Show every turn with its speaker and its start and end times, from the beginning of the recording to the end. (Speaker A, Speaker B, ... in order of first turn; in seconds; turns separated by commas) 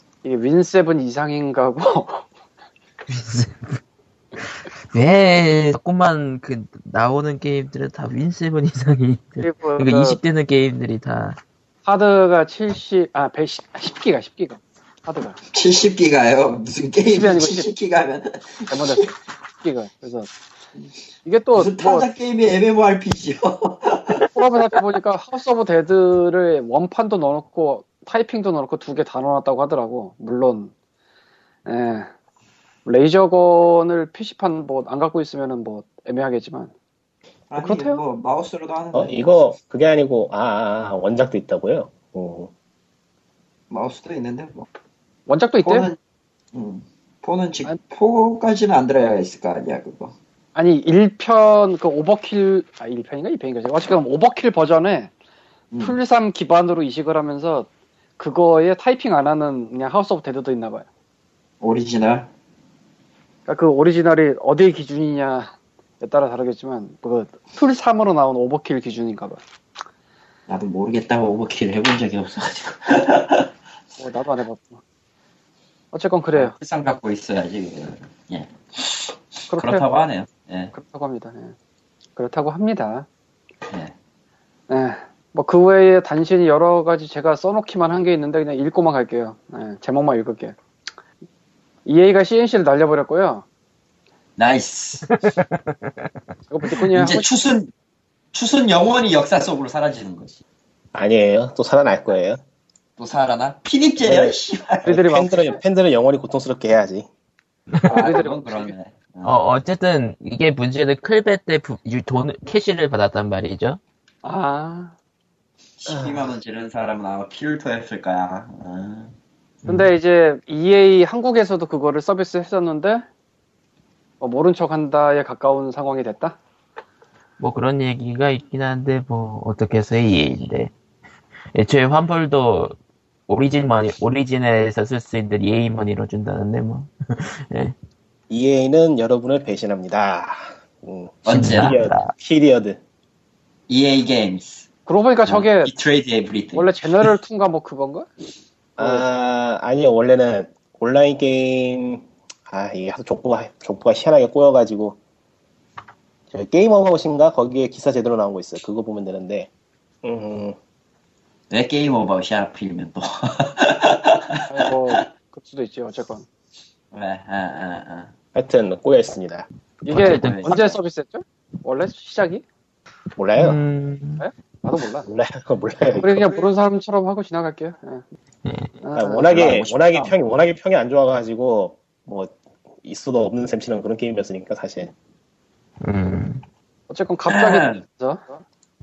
Speaker A: 0.2-2.2, Speaker B: 3.1-3.8, Speaker B: 4.5-11.4, Speaker A: 9.4-10.2, Speaker A: 11.8-15.4, Speaker C: 15.5-19.1, Speaker A: 17.1-17.7, Speaker A: 18.7-20.3, Speaker A: 21.2-22.1, Speaker C: 21.5-24.3, Speaker A: 24.2-30.7, Speaker A: 31.7-32.1, Speaker A: 32.9-36.7, Speaker C: 37.5-39.3, Speaker A: 37.6-38.0, Speaker D: 38.9-42.5, Speaker C: 43.7-44.7, Speaker A: 45.3-45.9, Speaker C: 45.6-46.0, Speaker C: 46.5-50.1, Speaker A: 50.5-55.1, Speaker C: 55.7-56.0, Speaker A: 55.8-57.7, Speaker A: 58.2-60.9, Speaker C: 61.6-62.3, Speaker A: 63.5-69.4, Speaker C: 70.5-73.5, Speaker A: 74.0-74.8, Speaker A: 75.9-76.5, Speaker C: 76.3-80.7, Speaker A: 79.5-79.8, Speaker A: 80.7-81.5, Speaker A: 82.2-83.1, Speaker C: 83.7-83.9, Speaker A: 84.7-90.5, Speaker A: 91.9-93.5, Speaker C: 94.4-95.1, Speaker B: 95.2-96.2, Speaker A: 96.5-97.3, Speaker C: 96.9-97.7, Speaker C: 98.3-100.4, Speaker D: 100.9-102.4, Speaker C: 103.0-105.0, Speaker D: 104.0-104.3, Speaker A: 104.8-105.5, Speaker D: 104.9-107.1, Speaker C: 107.9-109.4, Speaker A: 107.9-108.7, Speaker B: 109.2-113.8, Speaker A: 114.2-114.9, Speaker C: 115.8-119.1, Speaker D: 115.9-116.3, Speaker B: 119.7-119.9, Speaker A: 119.7-123.0, Speaker A: 124.2-126.4, Speaker B: 127.4-130.7, Speaker B: 131.5-132.8, Speaker B: 133.3-137.8, Speaker D: 138.3-142.8, Speaker C: 141.2-141.8, Speaker B: 141.3-142.1, Speaker C: 143.7-144.7, Speaker A: 144.9-145.7, Speaker C: 145.2-147.1, Speaker A: 146.5-148.1, Speaker D: 148.8-155.0, Speaker A: 148.8-149.0, Speaker D: 156.3-159.5, Speaker D: 160.0-160.6, Speaker C: 161.5-165.0, Speaker A: 164.5-166.2, Speaker C: 166.9-168.1, Speaker D: 168.3-169.5, Speaker A: 169.8-172.4, Speaker B: 169.9-170.6, Speaker C: 170.0-170.6, Speaker D: 173.2-173.6, Speaker B: 173.4-174.2, Speaker A: 174.2-175.1, Speaker D: 175.1-176.3, Speaker A: 176.0-178.0, Speaker B: 178.4-178.7, Speaker A: 178.8-180.1, Speaker D: 178.9-184.9, Speaker B: 185.8-186.4, Speaker A: 186.9-188.4, Speaker C: 187.3-187.8